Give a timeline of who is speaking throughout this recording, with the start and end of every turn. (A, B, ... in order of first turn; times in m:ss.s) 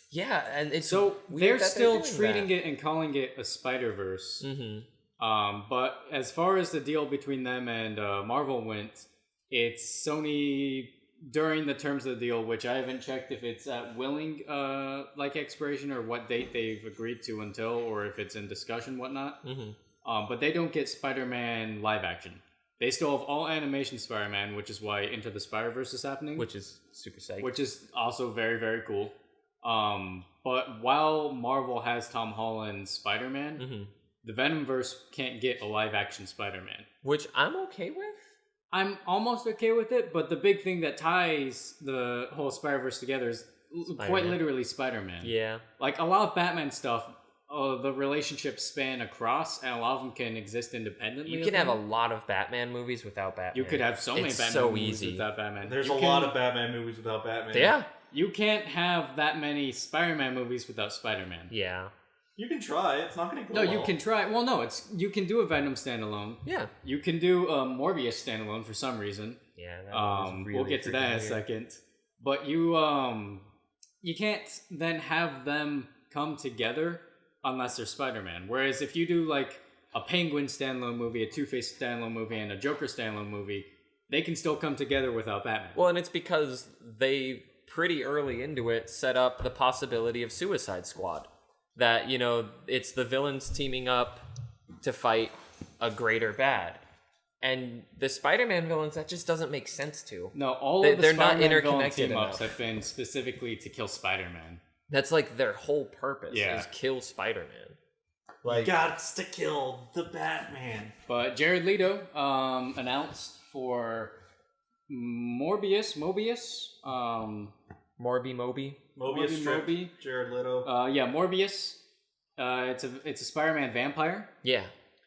0:00.1-0:02.5 A
0:00.8-0:04.4 B
0:04.4-0:04.9 A
0:05.2-0:19.4 B
0:19.4-0:19.8 A
0:20.0-0:26.5 B
0:26.4-0:27.6 A
0:27.4-0:33.6 B
0:33.6-0:33.9 A
0:34.2-0:36.8 B
0:37.0-0:38.3 A
0:38.7-0:51.8 B
0:44.0-0:44.4 A
0:45.2-0:45.6 A
0:51.2-0:55.3 A
0:53.5-0:56.3 B
0:55.6-0:57.7 C
0:57.5-0:57.9 A
0:58.1-1:01.5 B
1:01.5-1:01.9 A
1:02.4-1:04.0 C
1:03.5-1:09.4 B
1:06.4-1:06.7 A
1:09.6-1:11.4 A
1:09.9-1:13.4 B
1:14.0-1:25.8 B
1:25.7-1:34.2 A
1:34.8-1:36.8 A
1:37.4-1:42.5 A
1:40.3-1:44.6 B
1:44.9-1:47.8 A
1:46.3-1:46.7 B
1:48.4-1:50.9 C
1:48.4-1:48.7 A
1:51.1-1:54.1 B
1:54.9-1:57.5 B
1:58.0-1:58.8 A
1:58.9-2:00.7 C
1:59.0-1:59.9 B
2:00.6-2:01.8 B
2:02.4-2:04.3 B
2:04.4-2:04.7 A